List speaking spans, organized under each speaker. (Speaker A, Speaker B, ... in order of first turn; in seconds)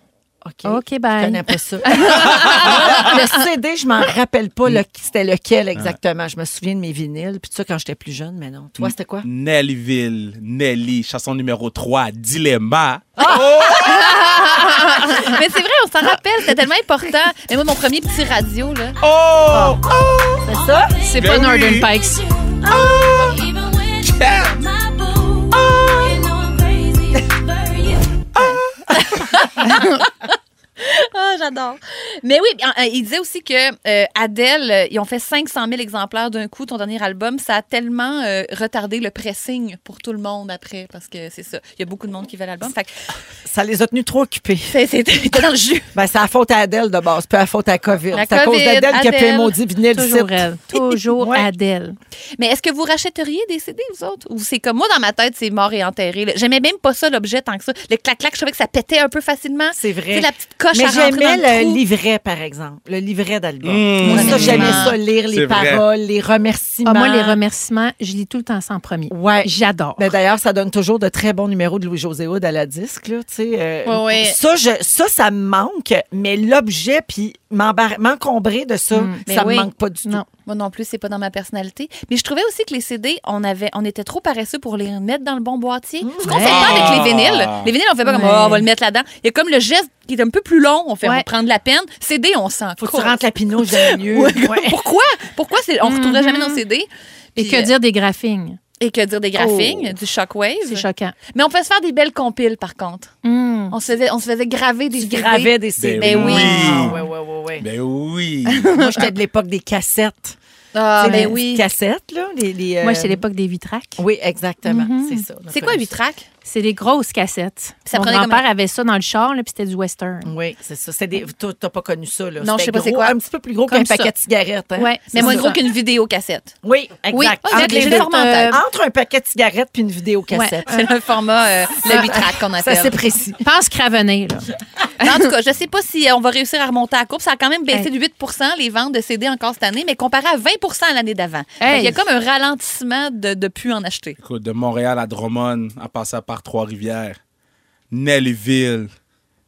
Speaker A: 0.4-9.3, 13.2-13.7, 20.4-20.9, 43.5-44.8, 45.9-51.5, 59.7-67.4, 69.1-80.2, 86.0-87.1, 92.8-94.8, 105.0-107.7, 108.7-110.4, 111.0-113.2, 114.0-115.9, 120.2-125.6, 126.6-130.9, 132.0-133.4
Speaker B: 0.7-3.2, 14.2-15.3, 21.0-22.2, 29.7-30.0, 49.9-52.0, 64.2-64.6, 66.8-70.1, 73.9-74.3, 78.9-79.3, 88.1-88.6, 95.8-96.6, 97.4-98.6, 99.4-99.9, 100.6-101.1, 103.2-103.8, 108.5-109.0, 111.0-111.4, 112.8-114.0, 114.7-115.2, 116.5-120.3, 123.7-124.1, 124.8-125.6, 127.1-128.6, 130.3-130.6, 131.9-132.2, 133.4-134.5, 141.6-142.0
Speaker C: 8.8-14.5, 19.0-20.5, 21.1-21.9, 22.7-23.4, 24.0-24.6, 28.4-28.8, 63.6-65.8, 86.4-87.7, 105.8-107.0, 107.6-108.7, 144.2-147.2, 147.9-148.9
Speaker D: 13.8-19.0, 23.4-23.8, 24.8-27.8, 28.4-42.9, 44.7-45.9, 48.1-49.5, 52.4-61.8, 64.1-64.9, 79.3-79.7, 80.4-97.7, 98.8-103.2, 103.7-107.0, 110.7-111.6, 115.5-116.3, 117.9-118.5, 122.4-123.1, 125.1-126.5, 127.5-128.6, 130.7-133.0, 135.0-144.2